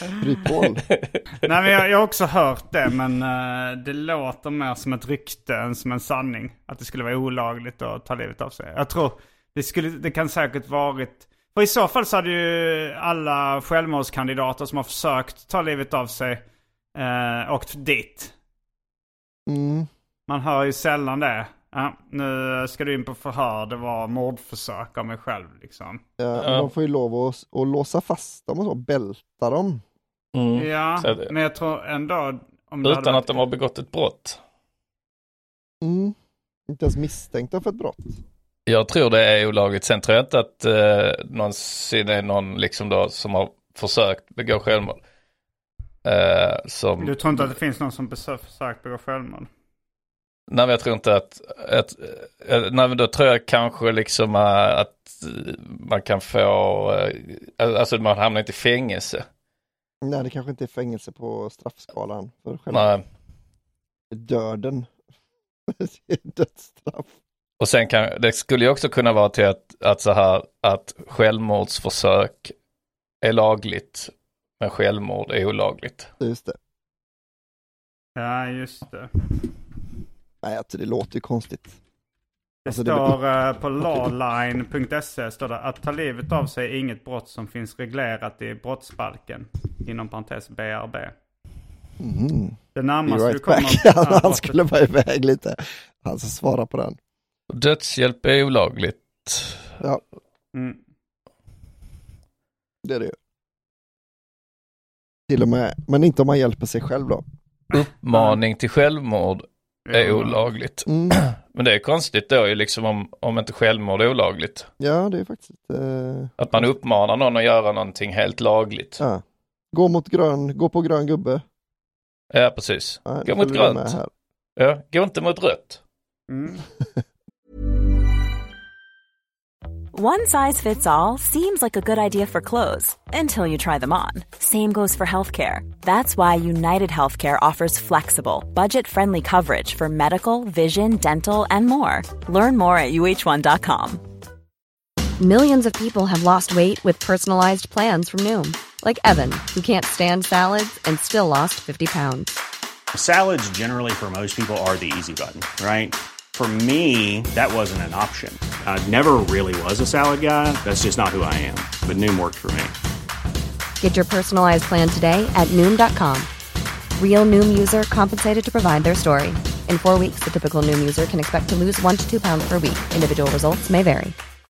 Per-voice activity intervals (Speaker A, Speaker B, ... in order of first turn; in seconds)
Speaker A: 0.2-0.8, 19.5-19.9, 26.2-29.8, 35.8-36.2, 36.7-38.2, 60.0-62.9, 64.1-64.9, 65.7-67.1, 76.2-76.6, 80.4-81.8, 82.7-83.1, 92.0-97.0, 102.8-103.2, 105.3-107.2, 110.9-111.2, 114.8-116.7, 119.0-121.4, 123.1-124.1
Speaker B: 1.4-16.4, 16.9-18.3, 20.3-26.0, 30.6-33.4, 47.0-49.5, 78.2-79.1, 82.7-91.1, 92.8-94.6, 100.5-100.8, 108.1-108.4, 109.9-110.4, 126.3-126.6
Speaker C: 26.4-26.7, 30.4-31.3, 32.8-34.4, 38.7-45.0, 46.0-47.4, 50.5-59.2, 62.7-63.0, 67.6-72.5, 73.2-76.1, 97.5-99.7, 107.7-114.7, 116.4-119.0, 122.3-124.0, 124.6-125.8
Speaker D: 129.9-144.0
Speaker E: 145.2-152.3, 163.8-166.3, 167.0-174.2
Speaker F: 152.9-162.7